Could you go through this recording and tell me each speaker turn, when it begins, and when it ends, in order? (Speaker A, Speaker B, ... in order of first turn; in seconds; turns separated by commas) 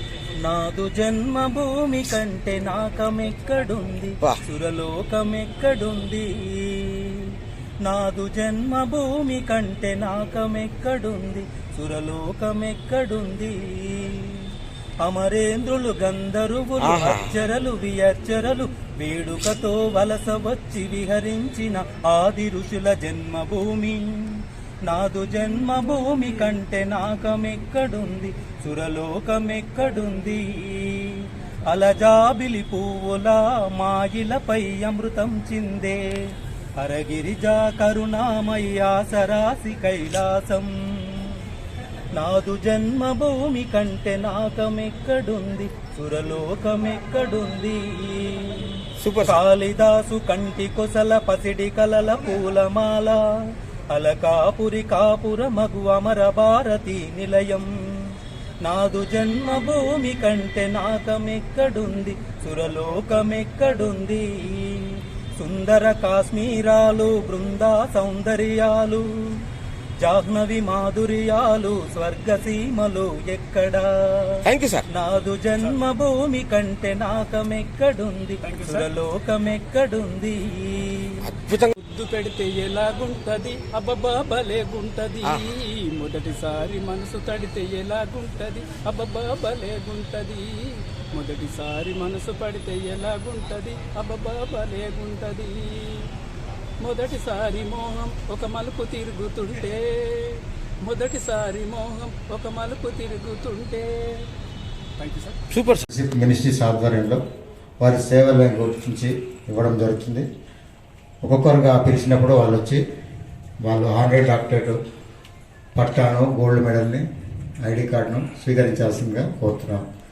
Speaker A: 0.4-14.5, Speaker A: 15.0-36.0, Speaker B: 16.8-17.3, Speaker A: 36.8-41.4, Speaker A: 42.1-53.2, Speaker B: 49.0-49.4, Speaker A: 53.9-69.4, Speaker A: 70.0-81.2, Speaker B: 74.5-74.9, Speaker C: 78.4-78.9, Speaker B: 81.2-81.7, Speaker C: 81.8-96.1, Speaker C: 96.8-104.3, Speaker C: 105.0-105.4, Speaker B: 105.5-105.9, Speaker D: 105.9-107.2, Speaker D: 107.8-110.3, Speaker D: 111.2-112.8, Speaker D: 113.6-114.8, Speaker D: 115.8-117.0, Speaker D: 117.6-119.8